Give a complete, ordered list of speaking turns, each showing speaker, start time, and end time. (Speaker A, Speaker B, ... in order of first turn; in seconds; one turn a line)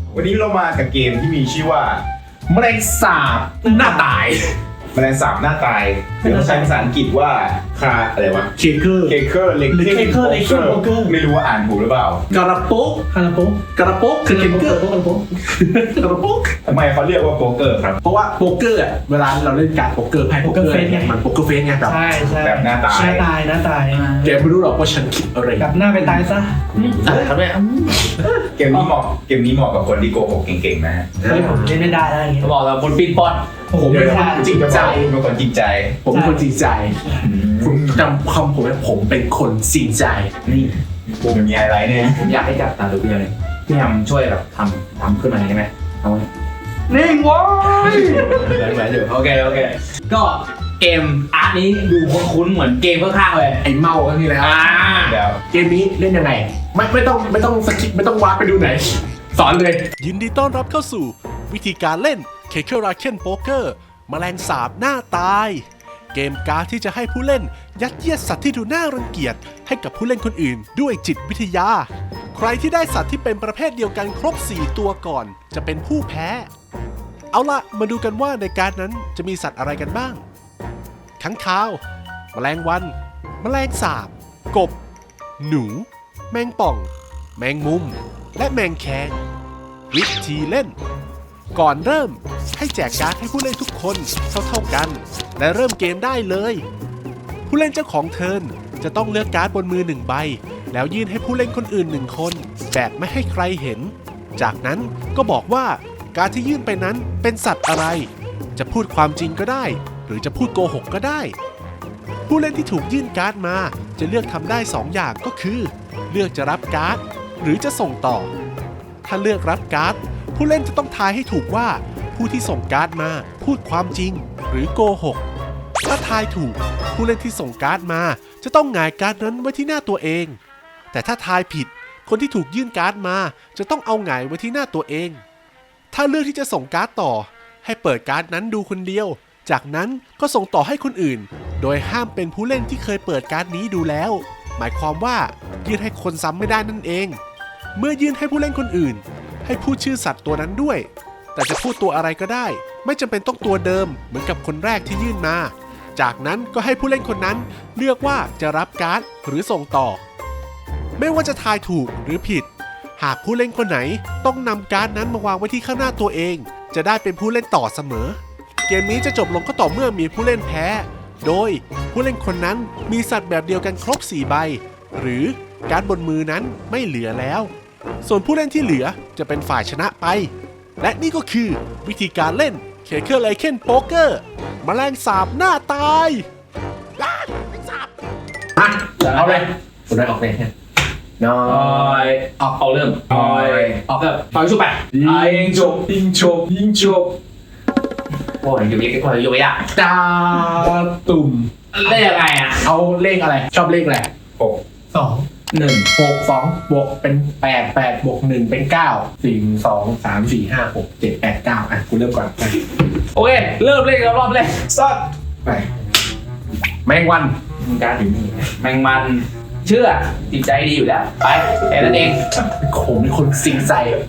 Speaker A: 0.1-2.0
Speaker B: 2.5-4.5
Speaker C: 3.6-4.1
Speaker A: 4.9-8.5
Speaker C: 6.2-6.8
Speaker B: 8.6-9.2
Speaker A: 9.0-12.4
Speaker C: 9.7-11.2
Speaker B: 12.3-13.1
Speaker C: 13.1-13.6
Speaker B: 13.7-16.6
Speaker C: 14.3-15.2
Speaker A: 16.6-18.0
Speaker B: 18.0-22.0
Speaker C: 20.4-21.1
Speaker C: 21.8-24.1
Speaker A: 22.4-23.3
Speaker D: 23.9-24.4
Speaker B: 24.2-25.7
Speaker C: 25.6-26.5
Speaker D: 26.7-28.9
Speaker B: 26.8-27.3
Speaker A: 28.6-31.1
Speaker B: 31.2-31.8
Speaker C: 31.2-32.5
Speaker D: 32.4-33.5
Speaker C: 33.7-34.5
Speaker B: 33.8-35.1
Speaker A: 33.9-36.0
Speaker B: 36.0-37.0
Speaker C: 36.1-36.4
Speaker A: 37.2-38.1
Speaker B: 37.6-40.3
Speaker D: 40.5-41.4
Speaker A: 41.2-42.3
Speaker D: 42.0-46.3
Speaker C: 46.9-48.4
Speaker B: 48.0-49.1
Speaker D: 48.9-53.6
Speaker B: 53.6-59.9
Speaker D: 54.4-55.2
Speaker A: 54.9-55.4
Speaker E: 60.0-76.5
Speaker E: 77.3-80.2
Speaker E: 81.2-81.8
Speaker E: 82.3-84.8
Speaker E: 85.4-89.2
Speaker E: 89.9-90.7
Speaker E: 91.5-96.6
Speaker E: 97.5-111.3
Speaker E: 112.3-118.3
Speaker E: 119.0-125.2
Speaker E: 125.8-130.4
Speaker E: 130.9-135.2
Speaker E: 135.9-147.2
Speaker E: 147.7-160.0
Speaker E: 161.0-177.5
Speaker E: 178.0-186.2
Speaker B: 187.0-187.8
Speaker B: 188.6-190.5
Speaker D: 189.1-189.4
Speaker B: 191.2-192.5
Speaker D: 191.4-197.1
Speaker A: 193.1-193.7
Speaker B: 194.9-197.1
Speaker D: 198.4-199.6
Speaker B: 199.7-201.5
Speaker D: 201.7-202.7
Speaker B: 202.6-204.1
Speaker C: 204.9-205.2
Speaker D: 205.5-205.9
Speaker B: 205.9-212.6
Speaker D: 213.1-214.7
Speaker A: 214.7-215.6
Speaker B: 216.8-217.3
Speaker D: 217.6-222.2
Speaker B: 221.8-224.0